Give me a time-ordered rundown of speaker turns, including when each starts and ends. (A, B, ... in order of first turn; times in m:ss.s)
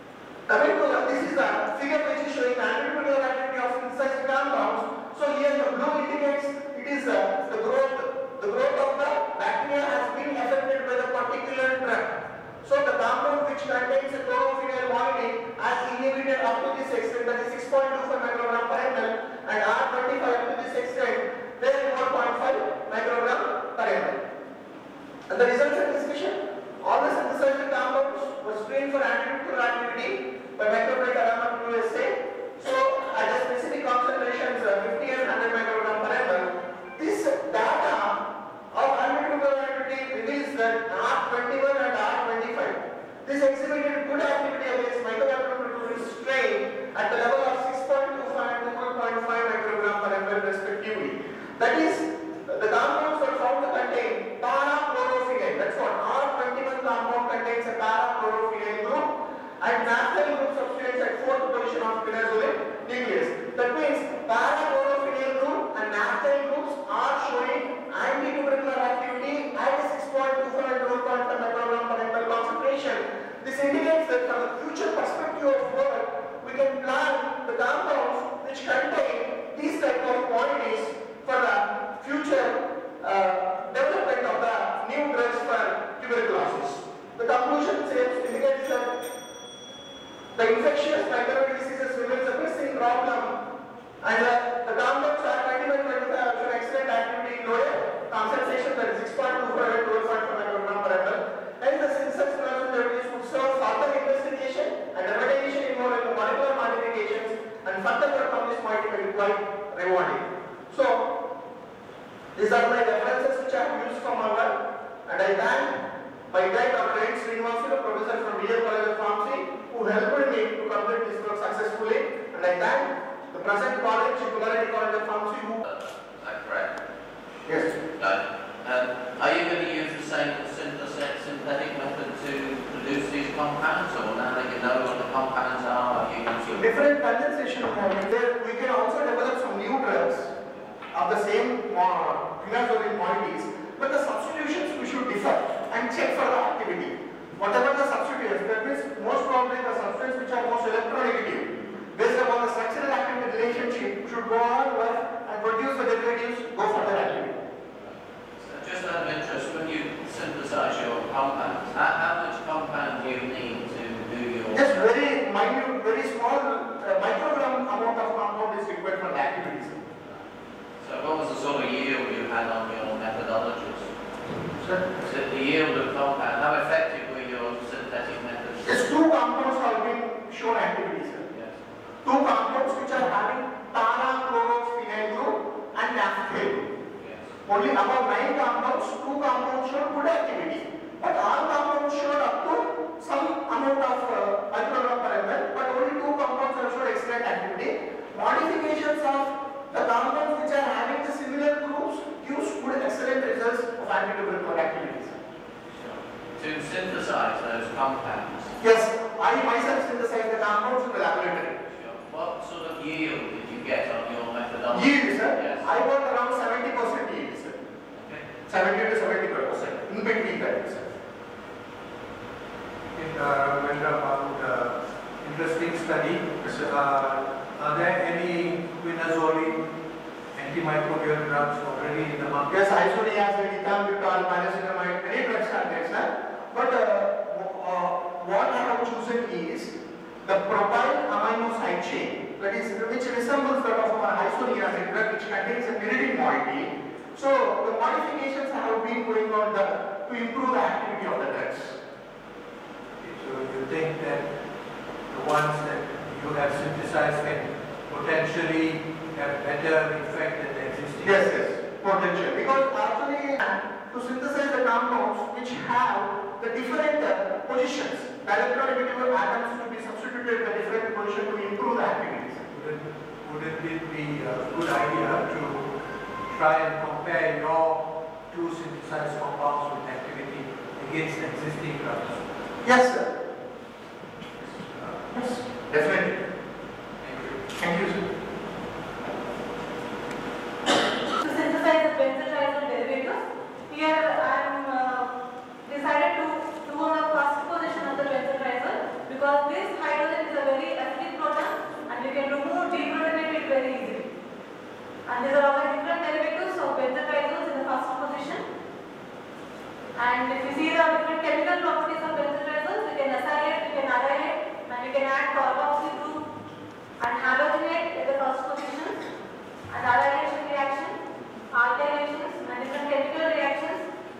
0:00.5-0:24.2 A
0:25.3-0:59.0 A
0:59.6-1:28.9 A
1:30.3-1:33.3 A
1:34.0-1:51.1 A
1:52.3-1:54.5 A
1:55.0-1:55.8 A
1:56.3-2:05.6 A
2:05.6-2:06.7 B
2:07.4-2:07.8 A
2:08.0-2:16.7 B
2:16.5-2:20.3 A
2:20.9-2:37.3 A
2:37.8-2:44.9 B
2:44.5-2:49.8 A
2:50.8-2:53.9 B
2:54.5-2:54.9 A
2:55.0-2:58.8 B
2:58.6-3:01.2 A
3:01.3-3:01.6 B
3:02.0-3:06.6 A
3:06.9-3:07.4 B
3:07.4-3:25.2 A
3:25.7-3:28.6 B
3:28.6-3:31.6 A
3:31.6-3:35.6 B
3:34.7-3:37.6 A
3:37.9-3:38.3 B
3:38.4-3:40.9 A
3:42.9-3:49.6 C
3:50.3-3:52.6 C
3:52.5-3:59.7 A
4:00.2-4:11.8 A
4:13.0-4:14.3 C
4:15.1-4:21.3 C
4:21.0-4:32.4 A
4:32.5-4:35.7 C
4:36.3-4:42.3 C
4:42.6-4:43.1 A
4:44.5-4:45.1 C
4:45.1-4:46.1 A
4:47.0-4:47.5 C
4:47.6-4:48.0 A
4:51.2-4:53.2 D
4:53.7-4:55.1 D
4:55.6-5:04.1 D
5:05.0-5:08.4 D
5:10.0-5:16.2 D
5:17.0-5:19.0 D
5:19.7-5:21.0 D
5:21.5-5:23.8 D